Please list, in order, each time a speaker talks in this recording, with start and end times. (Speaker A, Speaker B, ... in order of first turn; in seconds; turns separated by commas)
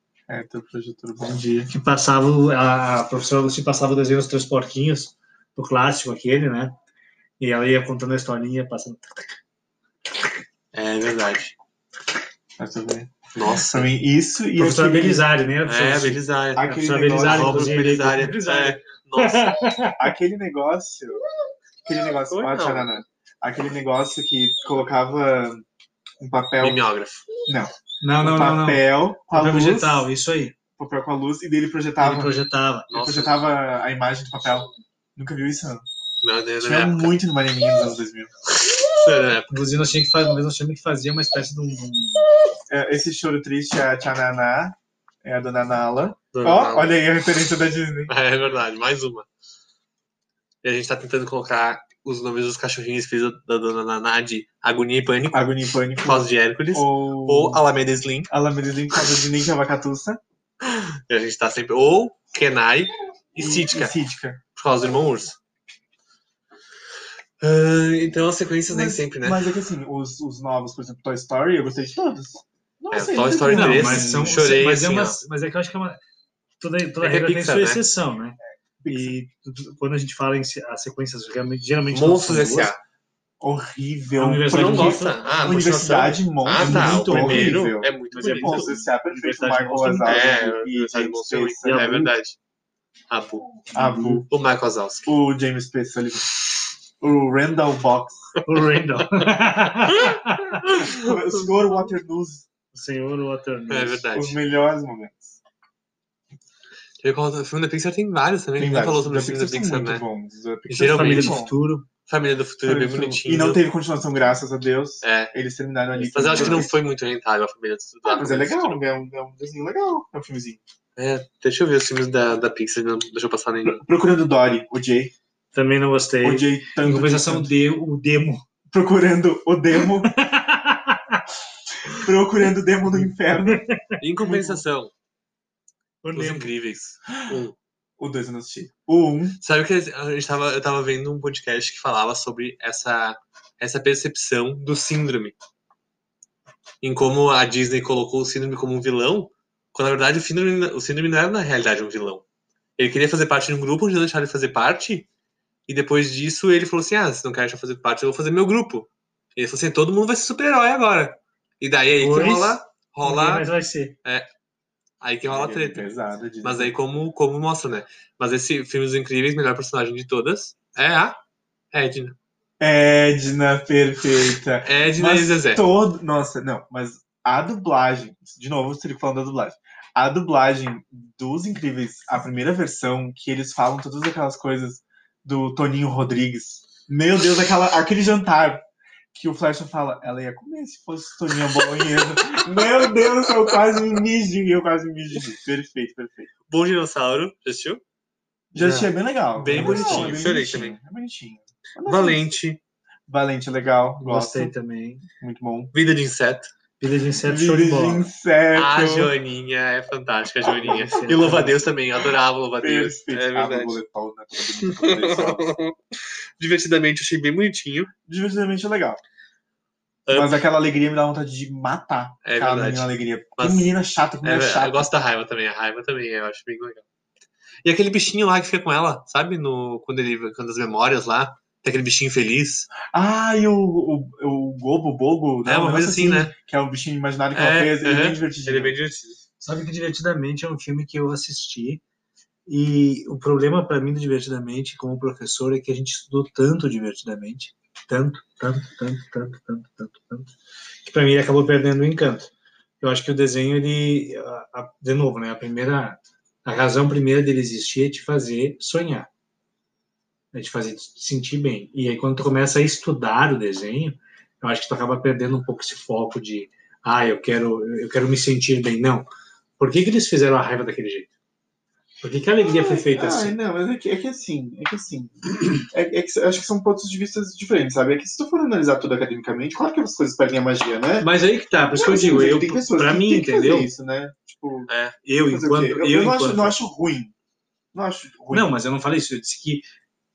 Speaker A: 0.3-1.7, Speaker B: 1.3-6.8, Speaker B: 7.4-9.3, Speaker C: 10.7-11.5, Speaker A: 12.6-15.2, Speaker C: 13.3-13.9, Speaker B: 14.6-20.0, Speaker C: 15.6-19.6, Speaker A: 16.6-17.8, Speaker A: 20.0-21.2, Speaker A: 21.8-25.6, Speaker C: 22.3-23.0, Speaker A: 26.2-26.8, Speaker C: 26.6-27.3, Speaker A: 27.4-30.1, Speaker B: 28.0-30.6, Speaker A: 30.8-32.3, Speaker B: 32.0-32.9, Speaker C: 32.9-33.4, Speaker A: 32.9-35.9, Speaker C: 36.2-37.2, Speaker A: 36.6-38.3, Speaker C: 38.5-39.5, Speaker B: 39.5-42.3, Speaker A: 42.7-48.1, Speaker C: 46.3-47.0, Speaker C: 48.1-49.2, Speaker C: 50.6-58.3, Speaker A: 55.3-57.6, Speaker A: 58.3-60.2, Speaker C: 60.6-63.9, Speaker A: 63.4-64.4, Speaker C: 64.5-65.4, Speaker C: 67.4-69.4, Speaker A: 68.7-74.5, Speaker C: 72.9-75.2, Speaker B: 73.5-76.0, Speaker B: 76.6-82.7, Speaker C: 77.0-77.8, Speaker A: 78.8-79.1, Speaker C: 81.9-82.8, Speaker A: 83.4-92.1, Speaker B: 84.2-85.3, Speaker C: 84.5-88.7, Speaker B: 86.6-90.3, Speaker C: 90.0-92.4, Speaker B: 91.6-92.1, Speaker C: 93.1-93.6, Speaker B: 93.7-94.2, Speaker A: 93.7-94.3, Speaker C: 94.3-95.1, Speaker A: 95.0-96.3, Speaker A: 97.0-98.3, Speaker B: 98.4-100.6, Speaker C: 100.0-101.5, Speaker A: 100.8-102.5, Speaker B: 102.7-104.1, Speaker C: 103.7-104.4, Speaker A: 104.1-105.4, Speaker C: 107.0-110.0, Speaker A: 108.6-111.5, Speaker C: 110.7-111.4, Speaker B: 110.7-111.9, Speaker C: 112.1-113.6, Speaker A: 112.6-116.8, Speaker C: 115.0-115.3, Speaker C: 116.0-118.8, Speaker B: 116.3-116.6, Speaker A: 118.0-120.6, Speaker C: 121.0-123.8, Speaker A: 123.7-125.1, Speaker B: 125.5-128.4, Speaker A: 126.2-127.5, Speaker A: 128.7-130.1, Speaker B: 130.1-131.2, Speaker A: 131.8-133.6, Speaker B: 132.9-134.0, Speaker C: 134.0-134.9, Speaker A: 134.2-134.6, Speaker B: 136.0-136.5, Speaker C: 136.1-137.5, Speaker A: 137.1-137.4, Speaker A: 138.0-139.4, Speaker C: 139.4-145.3, Speaker C: 146.8-152.2, Speaker C: 152.8-155.1, Speaker C: 155.7-163.5, Speaker B: 162.0-163.9, Speaker C: 165.0-165.9, Speaker A: 165.2-166.7, Speaker C: 166.4-171.2, Speaker C: 171.7-172.2, Speaker A: 172.6-196.3, Speaker C: 174.6-175.6, Speaker C: 196.5-197.8, Speaker A: 198.5-202.3, Speaker B: 198.6-198.9, Speaker C: 199.4-200.8, Speaker B: 199.5-200.1, Speaker C: 201.8-202.6, Speaker A: 203.1-204.5, Speaker B: 204.0-205.0, Speaker A: 205.2-205.7, Speaker C: 205.7-206.5, Speaker B: 206.8-208.1, Speaker A: 207.2-209.1, Speaker C: 208.5-213.8, Speaker B: 210.6-211.6, Speaker A: 212.6-215.5, Speaker C: 214.6-217.9, Speaker A: 218.1-219.0, Speaker C: 220.1-220.4, Speaker A: 220.1-224.9, Speaker C: 222.2-223.7, Speaker C: 224.2-226.8, Speaker C: 227.6-232.7, Speaker A: 232.9-238.8, Speaker C: 235.4-236.3, Speaker C: 237.3-239.2, Speaker B: 239.4-241.8, Speaker B: 242.5-250.3, Speaker B: 250.8-259.1, Speaker B: 260.3-269.1, Speaker B: 269.6-271.1, Speaker B: 272.0-273.4, Speaker A: 272.4-281.1, Speaker B: 281.0-283.7, Speaker A: 281.7-284.7, Speaker C: 284.7-285.0, Speaker B: 285.0-286.6, Speaker A: 285.3-287.1, Speaker A: 287.7-288.5, Speaker B: 288.3-289.6